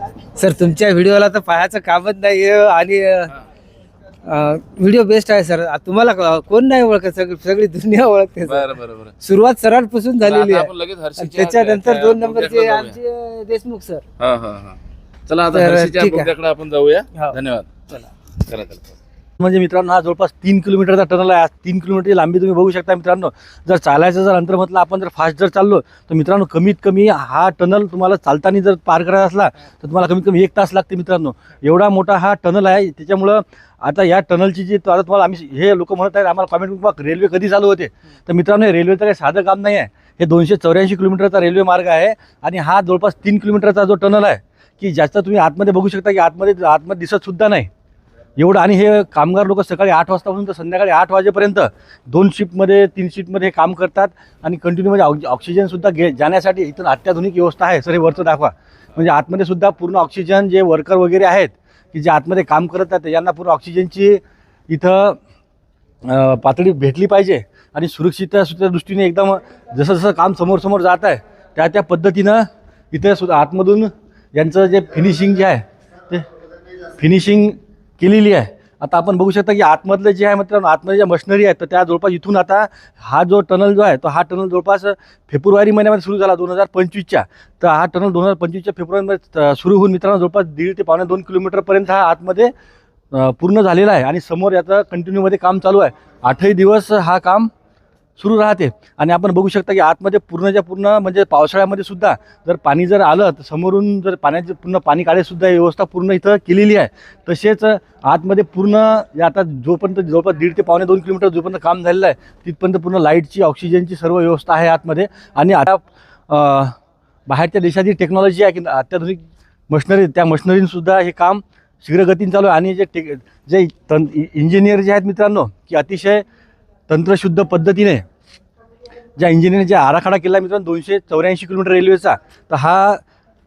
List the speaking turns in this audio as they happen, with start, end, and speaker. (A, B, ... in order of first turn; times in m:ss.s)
0:00.4-0:03.3 A
0:04.2-0:08.7 A
0:08.4-0:09.2 B
0:09.2-0:14.0 A
0:10.2-0:13.0 B
0:14.2-0:19.0 B
0:15.5-0:16.3 A
0:19.4-0:47.7 C
0:48.4-1:05.2 C
1:06.0-1:16.2 C
1:17.0-1:32.5 C
1:33.1-1:37.5 C
1:38.2-1:56.7 C
1:57.3-2:06.2 C
2:06.9-2:08.0 C
2:09.2-2:13.0 C